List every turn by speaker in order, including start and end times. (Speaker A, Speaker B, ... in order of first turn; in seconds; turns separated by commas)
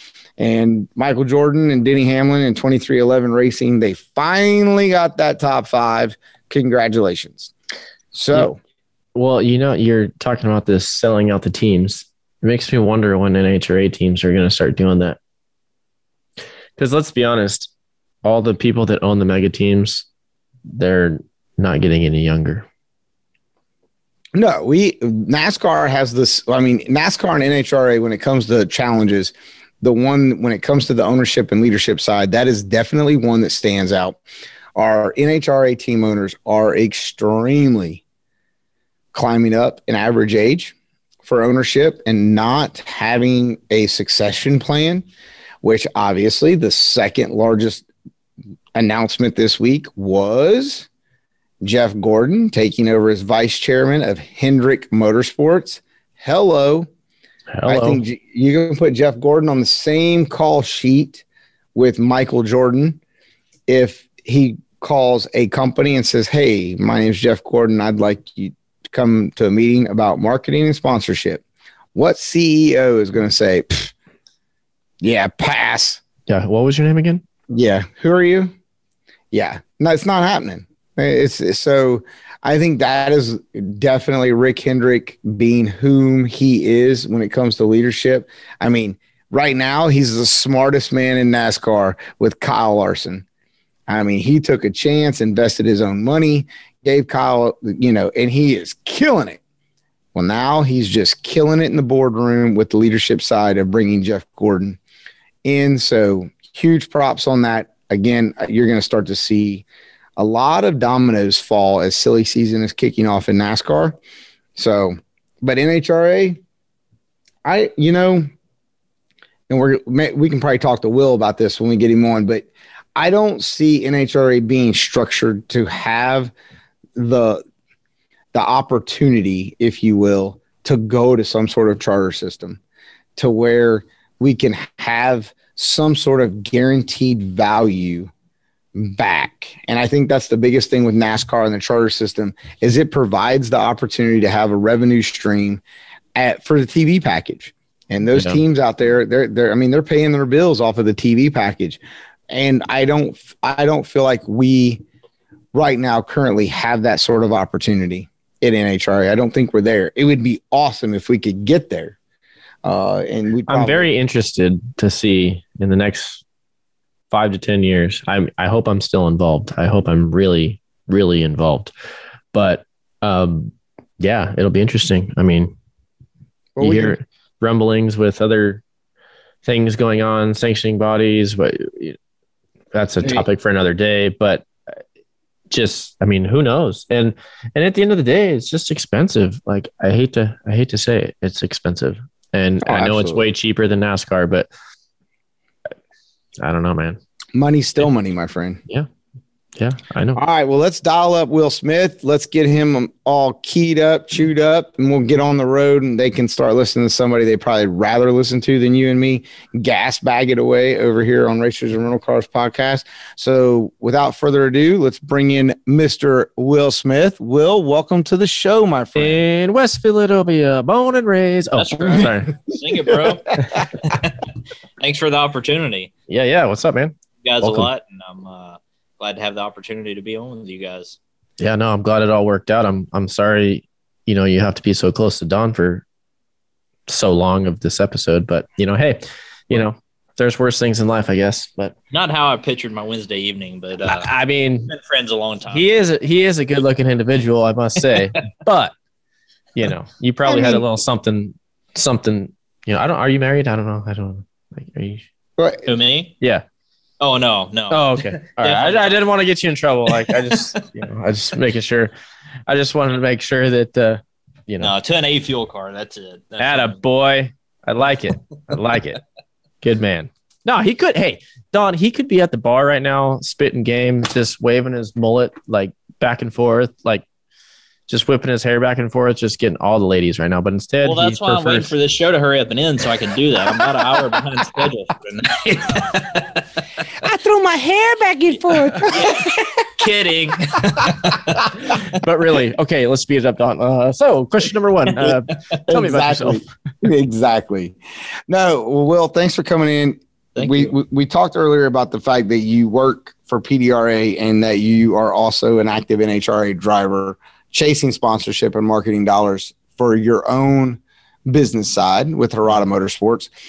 Speaker A: 0.4-7.5, Speaker A: 8.1-8.6, Speaker B: 9.1-15.2, Speaker B: 16.8-17.7, Speaker B: 18.2-20.1, Speaker B: 20.7-22.6, Speaker A: 24.3-34.2, Speaker A: 34.8-38.0, Speaker A: 39.1-45.0, Speaker A: 45.6-47.9, Speaker A: 48.7-50.9, Speaker A: 51.6-56.9, Speaker B: 57.5-58.0, Speaker A: 57.7-61.2, Speaker A: 61.7-63.0, Speaker A: 63.7-71.4, Speaker A: 71.9-73.9, Speaker A: 75.0-76.0, Speaker B: 76.3-77.2, Speaker A: 77.5-78.5, Speaker A: 79.3-93.2, Speaker A: 93.9-99.4, Speaker A: 100.1-104.8, Speaker A: 105.4-109.6, Speaker A: 110.2-114.0, Speaker A: 114.5-116.4, Speaker A: 117.4-118.3, Speaker A: 119.5-126.3, Speaker A: 126.9-127.4, Speaker A: 128.3-132.6, Speaker A: 133.2-138.1, Speaker A: 138.7-145.6, Speaker A: 146.1-154.8, Speaker B: 148.1-148.4, Speaker A: 155.5-161.9, Speaker A: 162.6-163.9, Speaker B: 163.5-166.2, Speaker B: 167.1-171.7, Speaker B: 172.3-175.5, Speaker A: 176.6-176.9, Speaker B: 176.6-178.6, Speaker B: 179.4-182.0, Speaker B: 182.7-184.5, Speaker B: 185.5-194.5, Speaker A: 192.6-193.3, Speaker B: 196.4-197.0, Speaker A: 197.3-198.6, Speaker B: 199.6-200.2, Speaker A: 200.2-219.2, Speaker B: 218.9-222.3, Speaker C: 221.6-224.2, Speaker C: 224.8-225.9, Speaker B: 226.1-227.7, Speaker C: 227.2-231.0, Speaker B: 231.4-235.8, Speaker B: 236.9-241.7, Speaker C: 241.9-244.1, Speaker B: 243.9-244.7, Speaker C: 244.7-245.6, Speaker B: 245.5-248.7, Speaker B: 249.5-255.0, Speaker A: 250.2-250.6, Speaker A: 255.4-255.7, Speaker C: 255.6-256.1, Speaker C: 257.0-259.0, Speaker B: 257.7-261.9, Speaker C: 260.1-260.5, Speaker B: 262.5-264.7, Speaker C: 264.6-266.8, Speaker B: 266.4-269.0, Speaker B: 269.6-277.0, Speaker B: 277.9-281.7, Speaker C: 280.8-286.4, Speaker D: 287.0-289.4, Speaker C: 288.9-291.4, Speaker B: 291.7-296.4, Speaker A: 295.7-297.8, Speaker A: 298.3-313.3, Speaker C: 300.4-300.8